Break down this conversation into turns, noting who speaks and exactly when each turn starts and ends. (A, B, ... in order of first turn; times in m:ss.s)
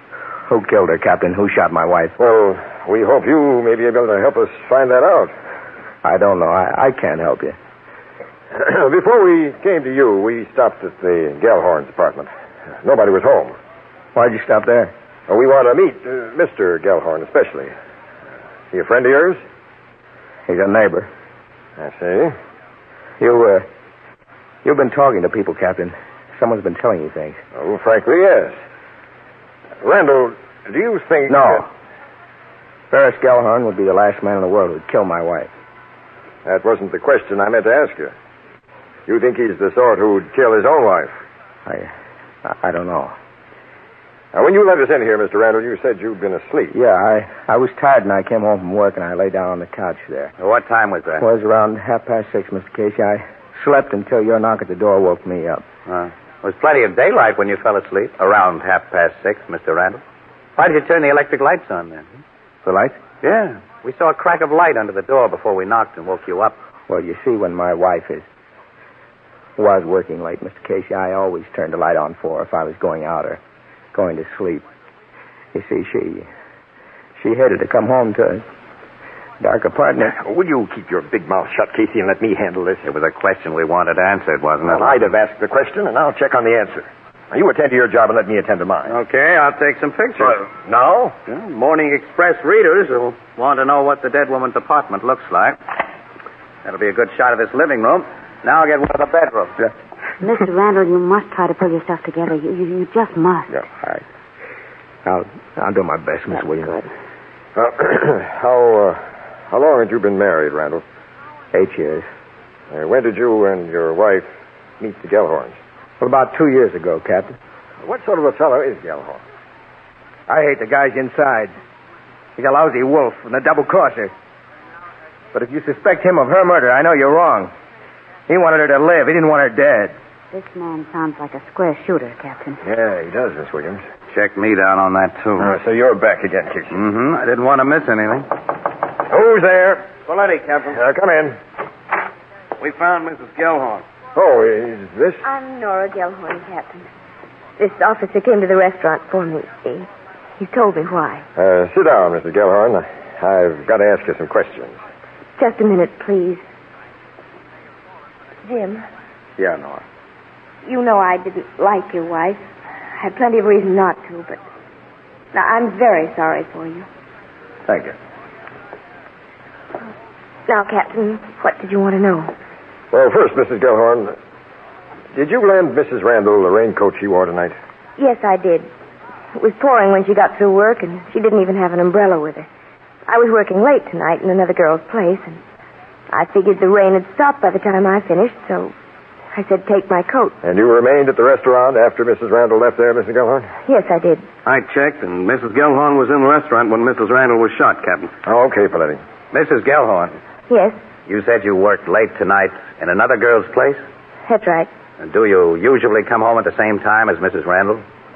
0:00.5-0:02.2 A
0:02.2-0:05.3 B
0:06.0-0:07.6 A
0:08.5-0:12.3 B
0:12.8-0:13.5 B
0:14.1-0:14.9 A
0:15.3-0:17.7 B
0:18.7-0:19.4 B
0:20.5-0:21.1 A
0:21.8-0:22.3 B
0:23.2-0:23.6 A
0:24.6-0:27.4 A
0:27.5-0:28.5 B
0:29.8-0:31.6 B
0:31.3-0:31.7 A
0:32.9-0:35.5 A
0:36.4-0:38.1 B
0:39.1-0:41.1 B
0:41.6-0:41.9 A
0:42.4-0:43.1 A
0:44.3-0:46.7 B
0:46.7-0:50.3 A
0:50.4-0:51.3 C
0:51.2-0:55.6 A
0:55.9-1:00.0 C
1:00.6-1:02.1 C
1:02.6-1:03.0 A
1:03.1-1:06.6 C
1:06.9-1:08.3 A
1:09.6-1:13.4 A
1:13.9-1:14.6 A
1:15.5-1:16.3 A
1:17.2-1:18.4 A
1:19.4-1:20.1 A
1:20.1-1:22.8 B
1:22.8-1:25.1 C
1:24.6-1:29.0 B
1:28.9-1:30.5 C
1:30.2-1:31.2 B
1:31.3-1:35.6 C
1:36.6-1:39.6 C
1:40.2-1:43.5 D
1:45.0-1:46.8 A
1:47.6-1:50.8 B
1:51.5-1:52.1 A
1:52.7-1:54.3 B
1:54.8-1:55.6 B
1:56.0-1:57.4 A
1:57.8-1:59.2 B
2:00.3-2:01.5 A
2:02.4-2:04.1 A
2:05.3-2:07.5 A
2:08.3-2:09.9 A
2:10.3-2:12.6 D
2:12.6-2:13.8 B
2:14.1-2:15.5 C
2:15.4-2:16.8 B
2:16.7-2:18.3 C
2:19.1-2:20.0 B
2:20.0-2:20.8 E
2:20.7-2:21.4 B
2:22.6-2:23.8 E
2:24.1-2:25.2 B
2:25.2-2:26.8 F
2:27.6-2:29.9 F
2:30.4-2:31.2 F
2:31.4-2:34.8 B
2:35.4-2:36.4 F
2:38.4-2:38.8 F
2:39.4-2:39.8 B
2:40.6-2:42.4 F
2:43.0-2:44.4 F
2:45.3-2:46.9 F
2:47.7-2:47.9 B
2:50.5-2:52.3 F
2:52.9-2:54.1 B
2:55.1-2:57.6 B
2:58.0-2:58.7 F
2:59.3-3:02.5 F
3:03.1-3:05.4 F
3:06.1-3:08.7 F
3:09.3-3:10.4 F
3:10.4-3:13.5 B
3:13.7-3:14.2 F
3:14.4-3:18.1 E
3:18.2-3:19.0 B
3:19.3-3:20.2 C
3:20.5-3:20.8 F
3:21.0-3:23.8 C
3:24.2-3:24.7 F
3:25.0-3:27.8 C